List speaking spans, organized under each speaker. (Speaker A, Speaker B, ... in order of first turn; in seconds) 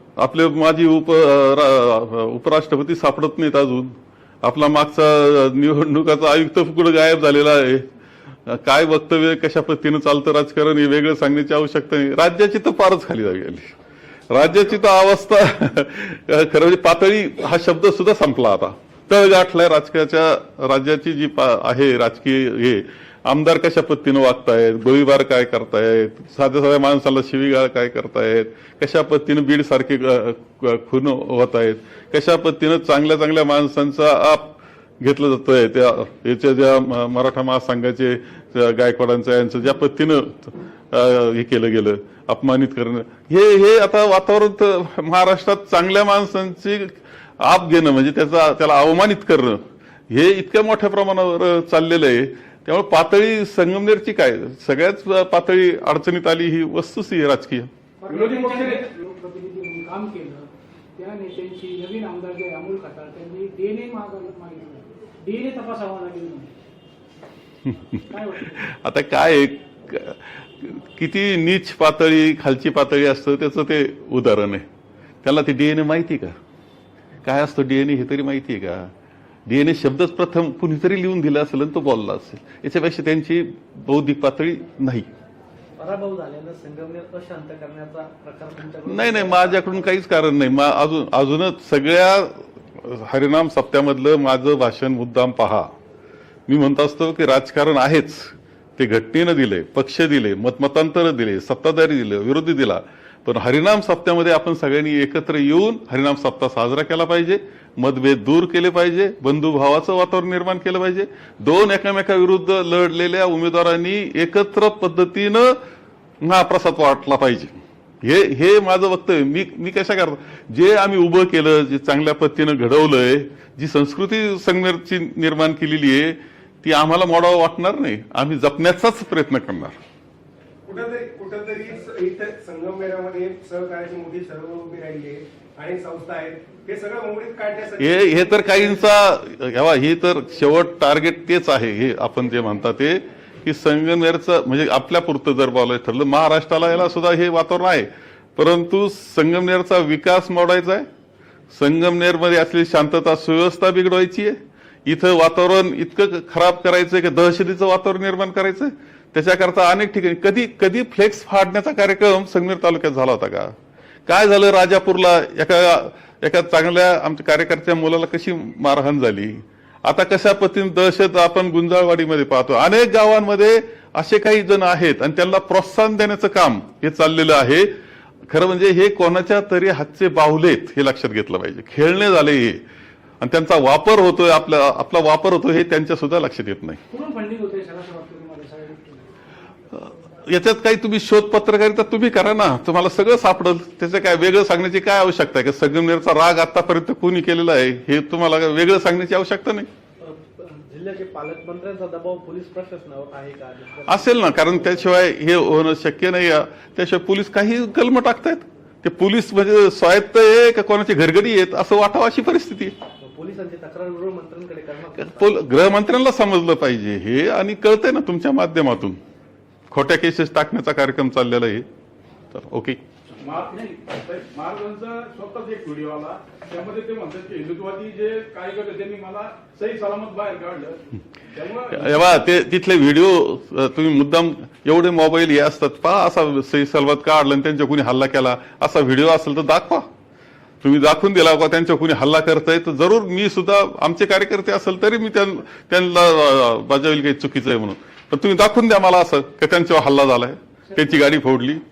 Speaker A: 0.2-7.9, 8.4-13.8, 14.3-57.7, 67.7-74.6, 75.2-76.3, 77.2-78.9, 79.5-85.1, 88.9-95.7, 96.5-115.6, 116.2-129.8, 137.8-150.8, 151.5-163.5, 164.1-177.7, 178.3-182.6, 183.2-186.8, 189.7-199.7, 203.9-212.8, 215.0-219.0, 219.7-221.7, 222.3-222.8, 231.7-239.8, 240.6-251.6
Speaker B: 58.0-66.5, 68.1-68.7, 186.9-189.1, 250.7-251.0
Speaker C: 58.1-58.8, 223.2-232.0
Speaker D: 85.8-90.0, 200.0-205.0, 213.0-215.4
Speaker E: 130.7-138.7